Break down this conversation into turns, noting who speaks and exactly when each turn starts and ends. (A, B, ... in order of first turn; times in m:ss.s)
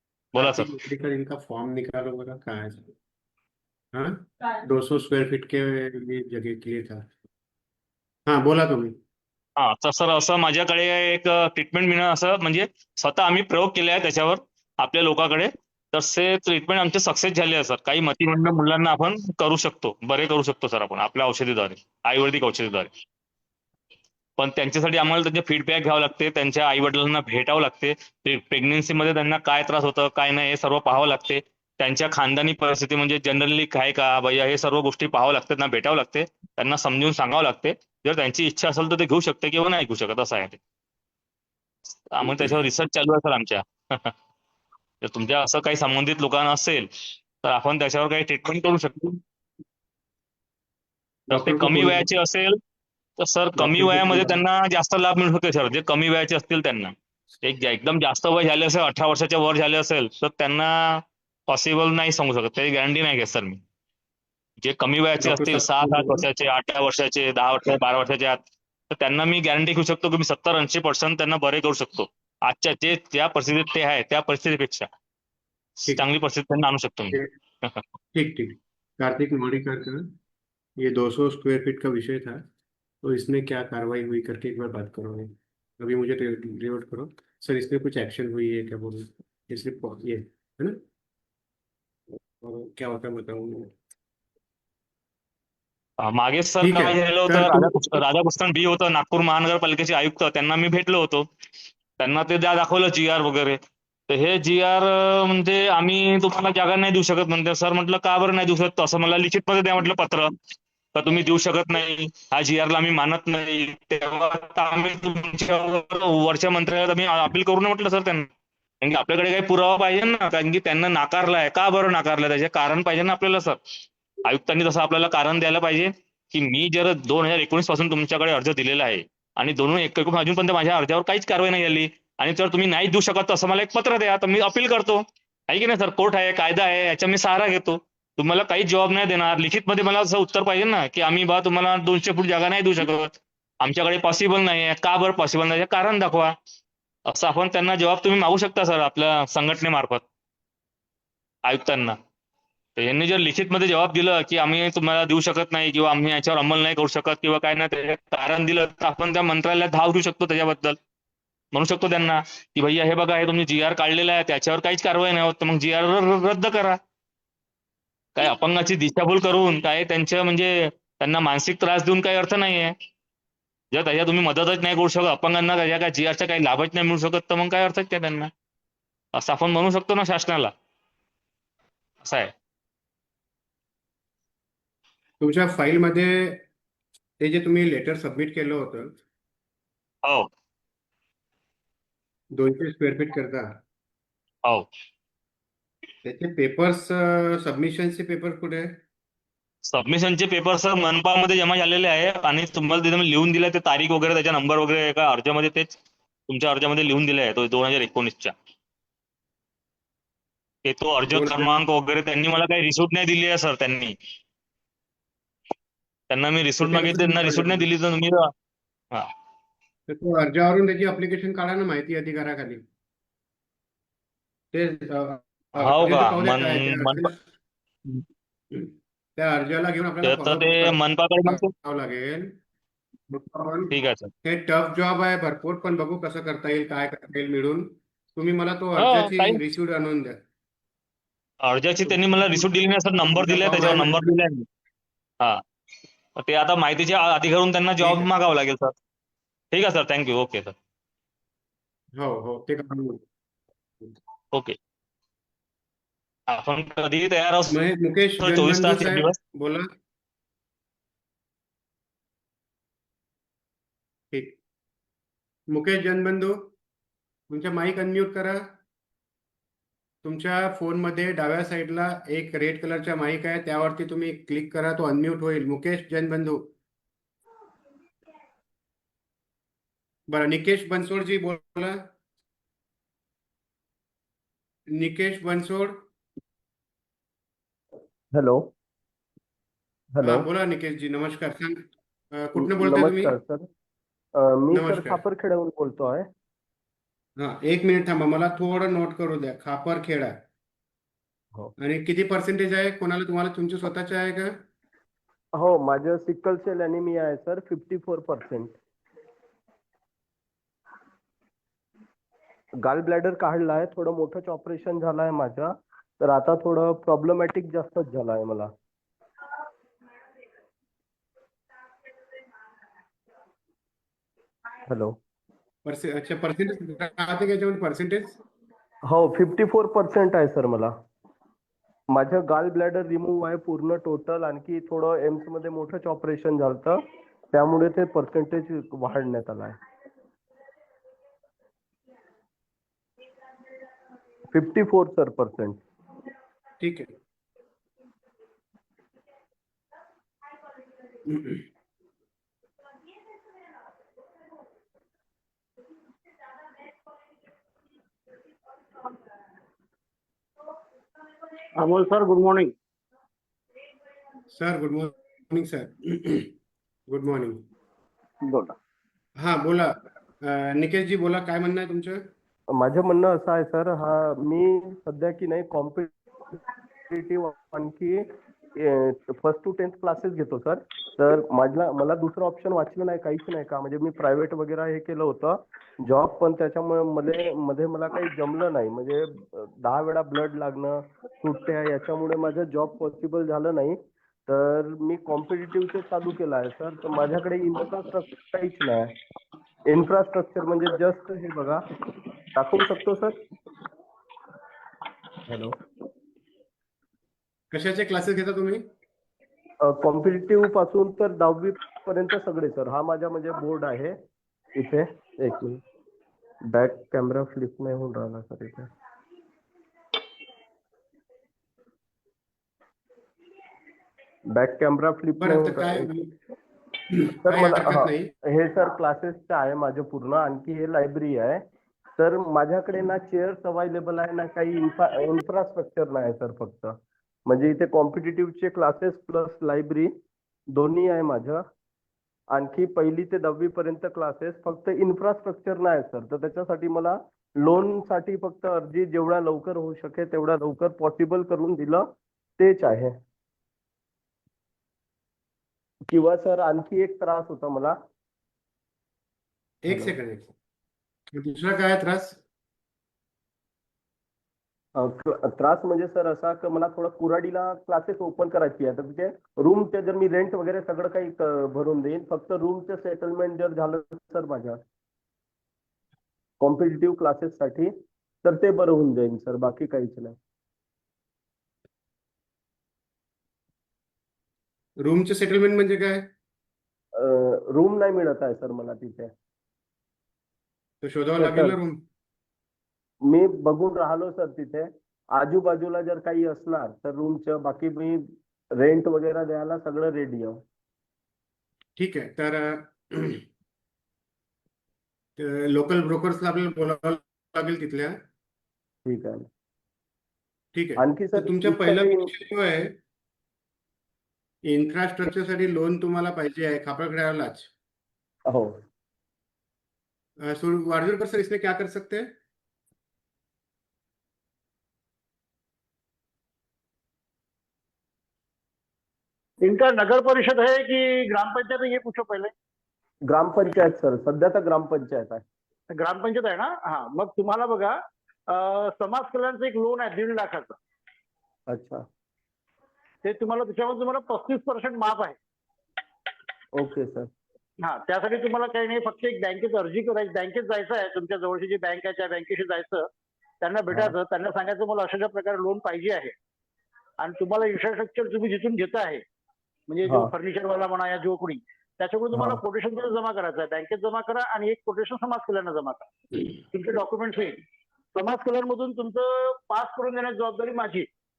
0:00.3-0:00.6 A
0:00.4-0:02.9 B
0:03.9-0:07.1 B
0:08.3-0:09.0 B
0:09.6-0:22.9 A
0:24.4-0:40.6 A
0:42.1-0:44.1 A
0:42.2-0:42.5 B
0:45.0-0:46.9 A
0:47.4-0:49.2 A
0:51.3-0:52.1 B
0:51.3-0:52.6 A
0:53.2-1:03.6 A
0:53.6-0:54.4 B
1:04.6-1:08.4 A
1:05.2-1:06.2 B
1:08.9-1:14.9 A
1:15.8-1:17.8 A
1:18.1-1:20.1 B
1:20.8-1:22.4 B
1:23.0-1:30.8 B
1:32.4-1:33.7 B
1:36.0-1:41.3 A
1:36.6-1:38.0 B
1:42.0-1:50.3 A
1:50.9-1:58.3 A
1:58.8-2:03.6 A
2:04.2-2:26.3 A
2:27.1-2:30.0 A
2:31.4-2:31.9 A
2:32.8-2:40.8 A
2:41.5-2:46.8 A
2:48.2-2:52.7 A
2:53.7-2:58.3 A
2:59.1-3:00.5 A
3:02.0-3:02.3 A
3:05.2-3:06.4 B
3:07.2-3:09.0 B
3:10.0-3:10.3 A
3:12.3-3:13.5 B
3:16.0-3:18.8 B
3:19.7-3:25.7 A
3:26.3-3:28.3 A
3:30.6-3:33.9 A
3:31.1-3:31.5 B
3:36.1-3:38.3 A
3:36.6-3:37.6 B
3:39.9-3:42.6 B
3:44.5-3:47.2 B
3:45.6-3:47.1 A
3:48.5-3:52.4 B
3:50.0-3:51.5 A
3:53.1-4:00.2 B
3:53.7-3:54.1 A
3:58.8-3:59.4 A
4:01.4-4:04.4 A
4:01.8-4:02.5 B
4:03.0-4:04.2 B
4:06.2-4:08.7 A
4:07.8-4:08.1 B
4:09.5-4:10.5 A
4:11.9-4:13.0 B
4:16.3-4:17.6 A
4:17.5-4:19.7 B
4:18.2-4:19.2 A
4:24.1-4:24.4 B
4:25.5-4:26.5 B
4:27.3-4:28.5 B
4:30.0-4:36.5 B
4:40.1-4:41.9 B
4:44.7-4:45.9 B
4:48.1-4:48.5 C
4:50.0-4:50.2 C
4:50.0-4:53.1 B
4:52.4-4:53.5 C
4:54.2-4:56.1 C
4:54.5-4:55.0 B
4:57.2-5:00.2 B
5:01.6-5:04.4 B
5:05.4-5:08.6 C
5:12.6-5:18.5 C
5:24.7-5:25.0 C
5:25.6-5:28.2 B
5:28.9-5:30.7 C
5:31.9-5:39.6 C
5:44.3-5:45.6 C
5:46.6-5:46.9 B
5:51.0-5:51.4 B
6:01.6-6:02.5 D
6:04.3-6:06.3 B
6:06.9-6:07.4 B
6:08.2-6:08.6 D
6:09.2-6:12.1 B
6:12.5-6:15.9 C
6:16.9-6:39.0 C
6:39.6-6:41.7 C
6:42.3-6:43.2 C
6:45.3-6:45.6 C
6:47.5-6:48.6 B
6:49.6-6:54.0 C
6:54.5-6:55.6 C
6:56.5-6:58.7 C
7:04.3-7:05.9 C
7:05.2-7:06.1 B
7:06.9-7:08.1 B
7:07.2-7:11.4 C
7:12.0-7:20.0 C
7:20.5-7:21.4 C
7:22.3-7:33.0 C
7:35.9-7:37.8 C
7:39.6-7:40.3 B
7:41.1-7:42.2 B
7:44.8-7:54.6 C
7:56.4-8:00.2 C
8:04.8-8:06.1 B
8:07.0-8:09.1 C
8:10.8-8:11.8 B
8:11.2-8:11.6 C
8:13.0-8:20.4 C
8:21.8-8:23.2 B
8:25.2-8:28.0 B
8:28.8-8:29.3 C
8:30.5-8:32.8 B
8:30.8-8:32.1 C
8:34.4-8:37.5 B
8:38.3-8:38.6 C
8:40.2-8:42.1 B
8:49.4-8:52.3 D
8:53.1-8:55.2 C
8:55.8-8:57.8 D
8:58.3-9:00.6 D
9:01.5-9:01.8 C
9:03.0-9:05.2 D
9:06.5-9:07.1 C
9:07.6-9:12.9 D
9:13.4-9:16.1 D
9:17.0-9:19.0 D
9:19.7-9:25.9 D
9:19.8-9:20.1 C
9:22.1-9:22.4 C
9:26.4-9:27.4 D
9:27.9-9:30.9 D